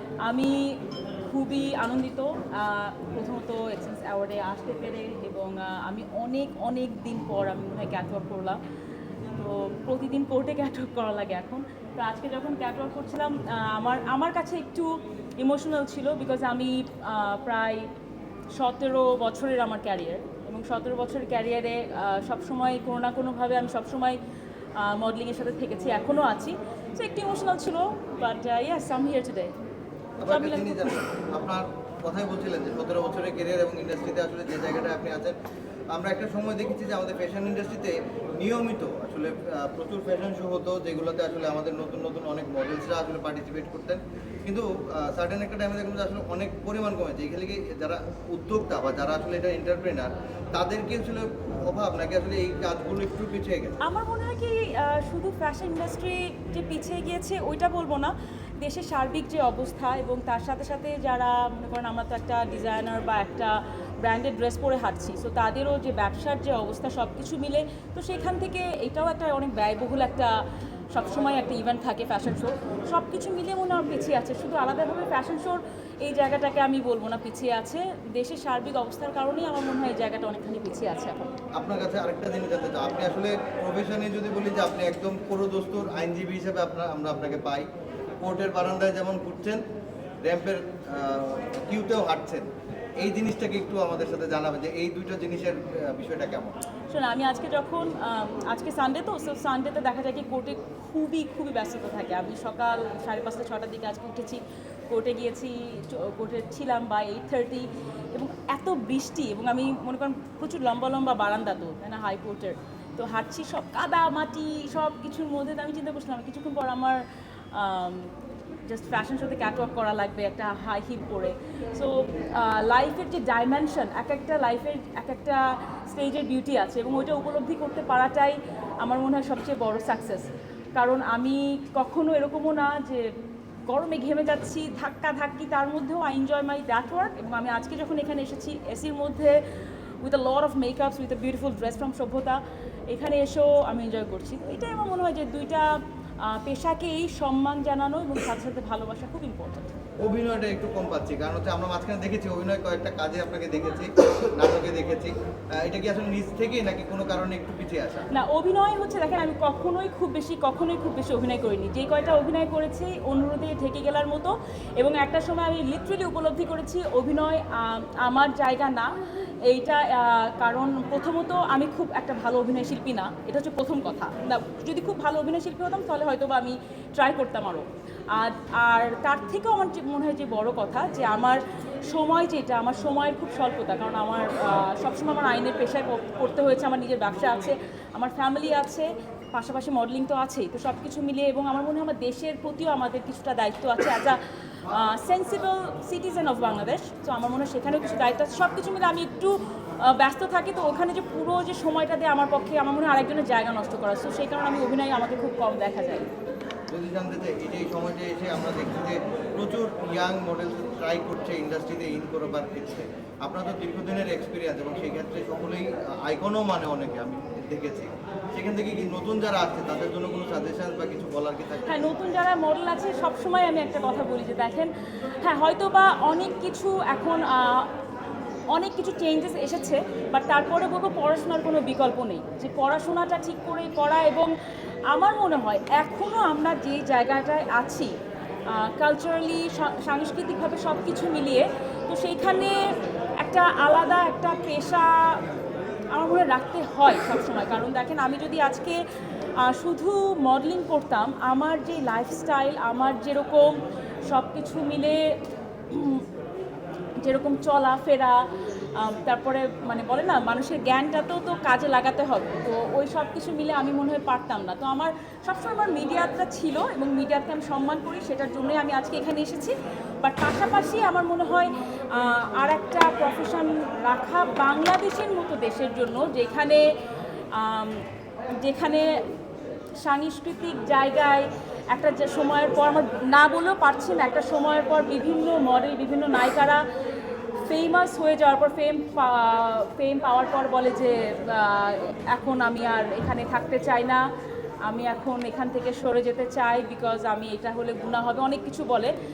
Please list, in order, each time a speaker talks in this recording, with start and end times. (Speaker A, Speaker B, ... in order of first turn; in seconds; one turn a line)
Speaker A: 0.2-8.6
Speaker A: 9.4-17.9
Speaker A: 18.6-24.2
Speaker A: 24.8-29.5
Speaker B: 30.2-35.4
Speaker A: 30.3-31.0
Speaker B: 35.9-53.8
Speaker A: 53.8-70.3
Speaker A: 70.9-81.3
Speaker B: 81.6-87.7
Speaker B: 88.2-89.6
Speaker B: 90.2-96.6
Speaker A: 96.9-118.1
Speaker A: 118.7-133.1
Speaker A: 133.7-139.4
Speaker A: 140.0-149.8
Speaker B: 150.0-158.1
Speaker A: 158.1-206.1
Speaker B: 206.7-221.9
Speaker A: 221.7-227.7
Speaker A: 228.5-234.3
Speaker A: 234.9-237.9
Speaker A: 238.5-242.6
Speaker A: 243.2-245.2
Speaker A: 245.9-248.8
Speaker A: 249.4-255.2
Speaker A: 255.7-256.1
Speaker A: 257.0-258.2
Speaker A: 258.8-276.6
Speaker A: 277.3-277.9
Speaker A: 278.4-278.9
Speaker A: 279.8-286.6
Speaker A: 287.5-294.0
Speaker A: 294.7-298.9